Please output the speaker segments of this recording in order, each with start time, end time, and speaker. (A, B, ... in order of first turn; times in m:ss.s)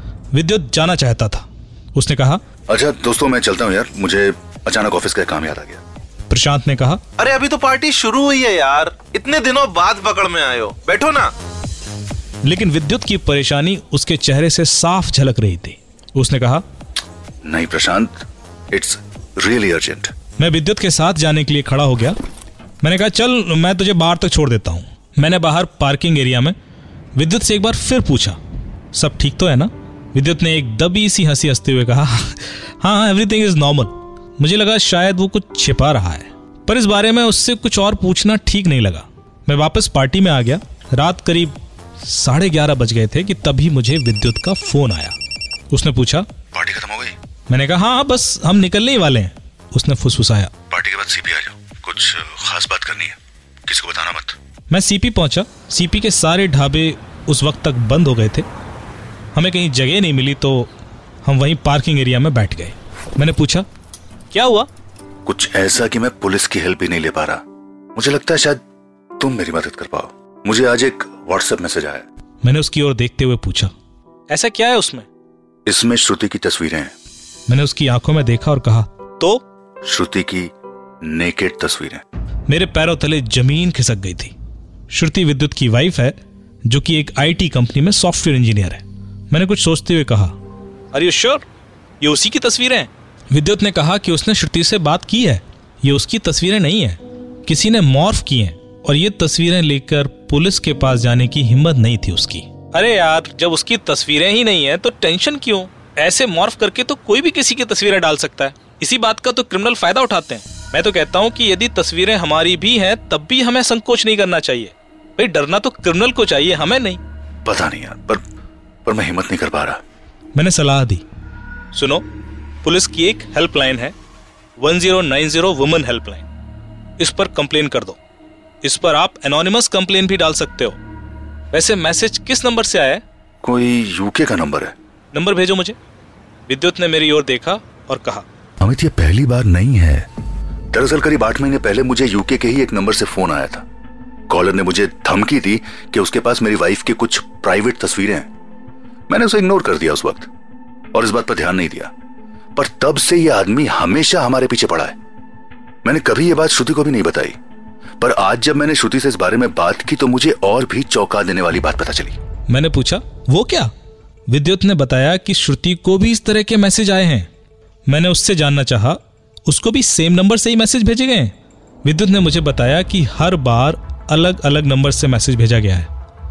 0:00.3-0:02.4 A
0:02.7-0:05.8 B
0:06.3-0:07.0 A
0:07.2-0:11.3 C
0:12.4-0:16.6 A
0:17.4-0:20.1 B
0:20.4-0:22.1 A
0:22.8-0:26.5 A
0:27.2-0:28.4 A
0:28.9-0:45.1 A
0:45.7-0:46.3 A
0:46.5-0:47.2 B
0:47.5-0:50.5 A
0:50.7-0:54.4 B
0:54.7-0:58.5 A
0:59.3-1:00.7 A
1:01.2-1:03.6 A
1:04.3-1:04.7 A
1:05.2-1:07.4 B
1:07.9-1:08.6 B
1:09.2-1:12.0 B
1:12.4-1:13.7 A
1:14.3-1:15.1 A
1:15.6-1:16.9 B
1:17.5-1:19.4 A
1:19.8-1:22.0 B
1:22.5-1:24.3 A
1:24.9-1:26.2 A
1:26.7-1:30.3 A
1:30.9-1:31.4 A
1:32.0-1:57.0 A
1:57.4-1:58.2 B
1:58.8-1:59.8 B
2:00.3-2:01.0 A
2:01.7-2:02.0 A
2:02.6-2:03.9 A
2:04.6-2:06.2 A
2:07.0-2:08.0 A
2:08.6-2:10.8 A
2:11.5-2:13.0 A
2:13.4-2:14.7 B
2:15.1-2:15.8 A
2:16.5-2:18.2 A
2:18.6-2:20.1 B
2:20.7-2:23.6 B
2:24.3-2:28.3 B
2:29.1-2:30.3 B
2:30.9-2:31.9 B
2:32.6-2:35.0 B
2:35.8-2:37.4 B
2:38.0-2:42.2 B
2:42.5-2:43.7 A
2:44.3-2:47.3 A
2:47.9-2:51.3 A
2:51.8-2:55.9 A